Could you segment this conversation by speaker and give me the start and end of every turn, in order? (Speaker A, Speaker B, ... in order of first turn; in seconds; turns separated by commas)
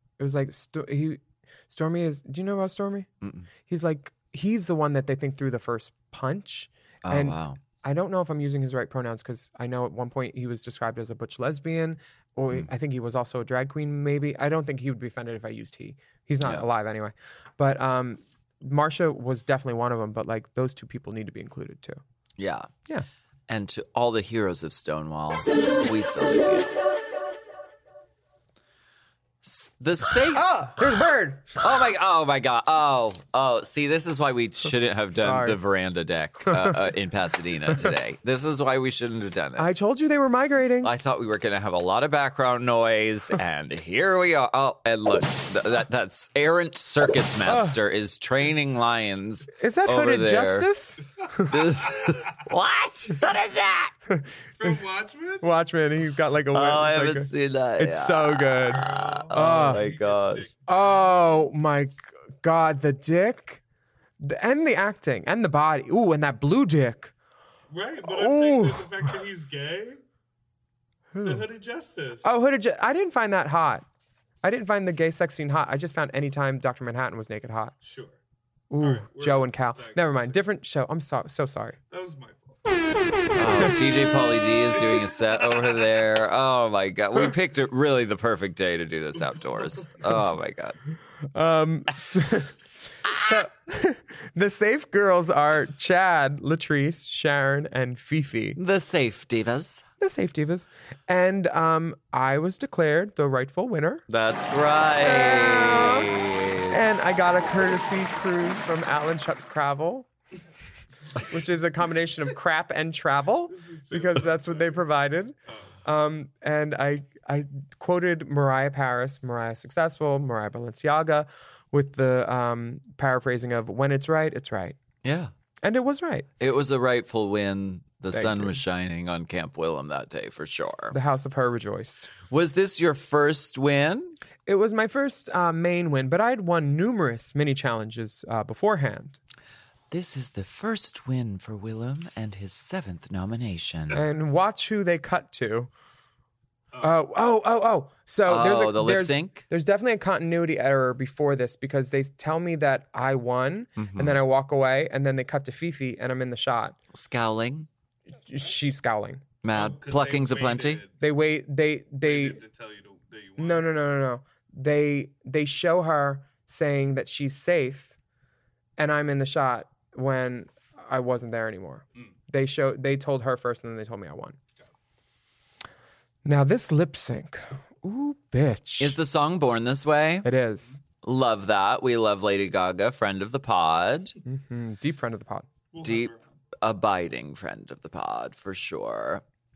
Speaker A: 0.2-3.1, Speaker B: 3.2-3.5, Speaker A: 3.7-22.0, Speaker B: 7.0-7.6, Speaker B: 22.4-22.7, Speaker B: 23.5-26.7, Speaker B: 29.4-30.6, Speaker A: 30.3-31.6, Speaker B: 31.6-39.7, Speaker A: 35.1-35.6, Speaker A: 39.6-40.9, Speaker B: 40.8-50.7, Speaker A: 47.4-47.8, Speaker A: 49.6-51.7, Speaker B: 51.4-53.9, Speaker A: 54.1-54.7, Speaker C: 54.6-55.4, Speaker A: 55.4-59.8, Speaker B: 56.5-60.5, Speaker C: 58.7-61.0, Speaker A: 60.7-63.6, Speaker A: 64.2-67.1, Speaker C: 67.7-70.0, Speaker A: 68.0-69.2, Speaker A: 71.1-71.5, Speaker C: 71.2-72.3, Speaker A: 72.2-73.8, Speaker A: 74.4-77.7, Speaker C: 77.8-78.2, Speaker A: 78.7-81.8, Speaker C: 78.8-80.4, Speaker C: 81.9-82.8, Speaker B: 83.3-90.8, Speaker C: 84.8-85.7, Speaker C: 89.3-90.0, Speaker A: 91.3-98.6, Speaker B: 98.5-99.8, Speaker A: 100.0-104.0, Speaker B: 104.1-106.8, Speaker A: 105.0-106.1, Speaker A: 106.7-110.1, Speaker A: 111.3-124.8, Speaker C: 113.5-114.8, Speaker C: 115.5-115.7, Speaker B: 125.0-125.3, Speaker A: 125.6-126.3, Speaker B: 126.4-130.9, Speaker A: 128.1-128.6, Speaker A: 130.9-132.1, Speaker B: 132.3-134.2, Speaker A: 134.4-139.2, Speaker B: 139.9-144.0, Speaker A: 143.9-145.7, Speaker C: 146.7-147.0, Speaker A: 146.8-156.8, Speaker B: 148.2-149.4, Speaker B: 153.8-154.2, Speaker B: 156.9-157.7, Speaker A: 158.3-159.2, Speaker B: 159.4-160.8, Speaker C: 159.5-161.0, Speaker A: 161.0-162.4, Speaker C: 162.0-163.7, Speaker A: 163.4-167.9, Speaker A: 168.8-174.4, Speaker A: 176.2-179.0, Speaker B: 178.8-180.3, Speaker A: 180.2-180.8, Speaker B: 181.0-184.2, Speaker A: 184.2-185.5, Speaker C: 185.7-186.3, Speaker B: 185.8-189.2